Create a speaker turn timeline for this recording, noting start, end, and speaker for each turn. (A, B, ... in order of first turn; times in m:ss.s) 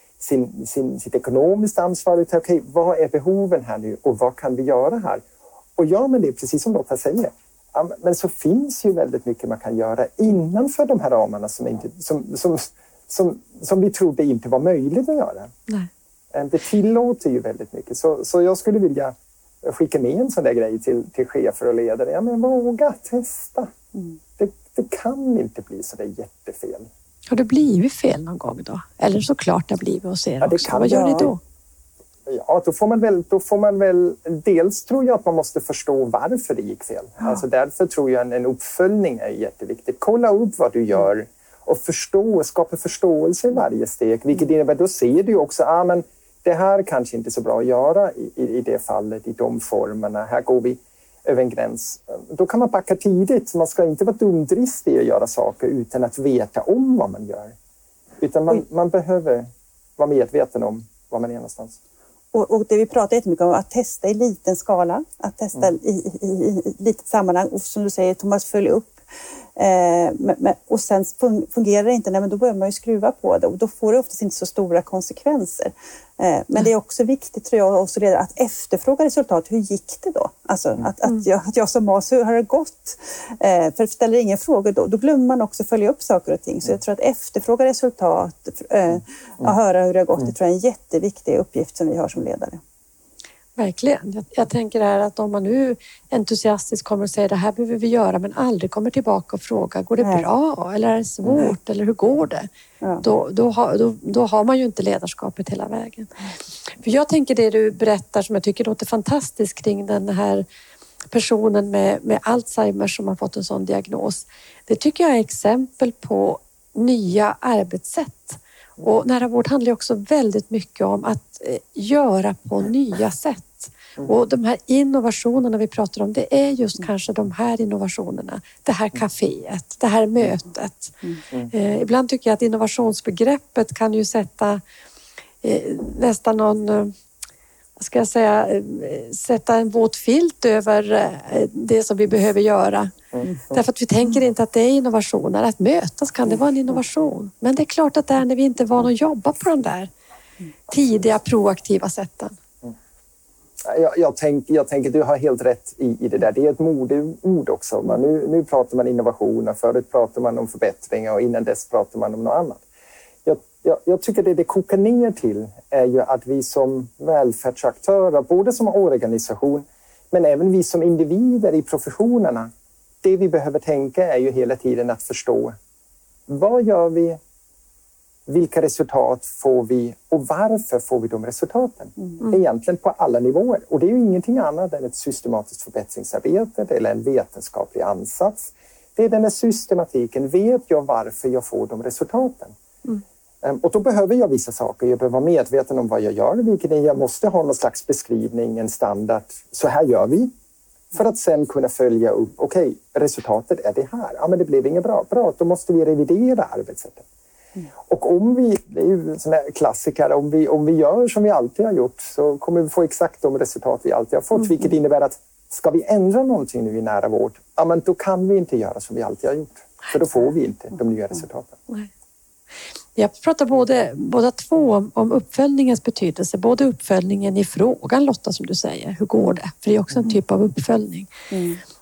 0:00.2-0:05.2 A
0:05.8-0:15.5 A
0:16.3-0:23.7 A
0:24.4-0:26.9 A
0:27.3-0:31.4 B
0:30.4-0:31.3 A
0:30.9-0:31.3 C
0:32.3-0:57.5 A
0:58.2-0:59.5 A
1:00.0-1:01.8 A
1:02.3-1:09.0 C
1:09.6-1:32.6 C
1:33.6-1:42.5 B
1:40.0-1:40.2 C
1:43.0-1:50.4 B
1:51.1-2:10.9 B
2:11.5-2:14.6 B
2:15.4-2:16.9 B
2:17.8-2:22.9 B
2:23.1-2:23.6 A
2:23.5-2:29.9 B
2:30.7-2:32.3 B
2:33.6-2:42.6 A
2:43.2-2:52.5 A
2:53.0-2:55.6 A
2:56.3-2:57.2 A
2:58.3-3:12.5 A
3:13.4-3:20.3 A
3:20.9-3:27.0 A
3:27.8-3:41.6 A
3:43.0-3:51.1 B
3:51.3-3:51.6 C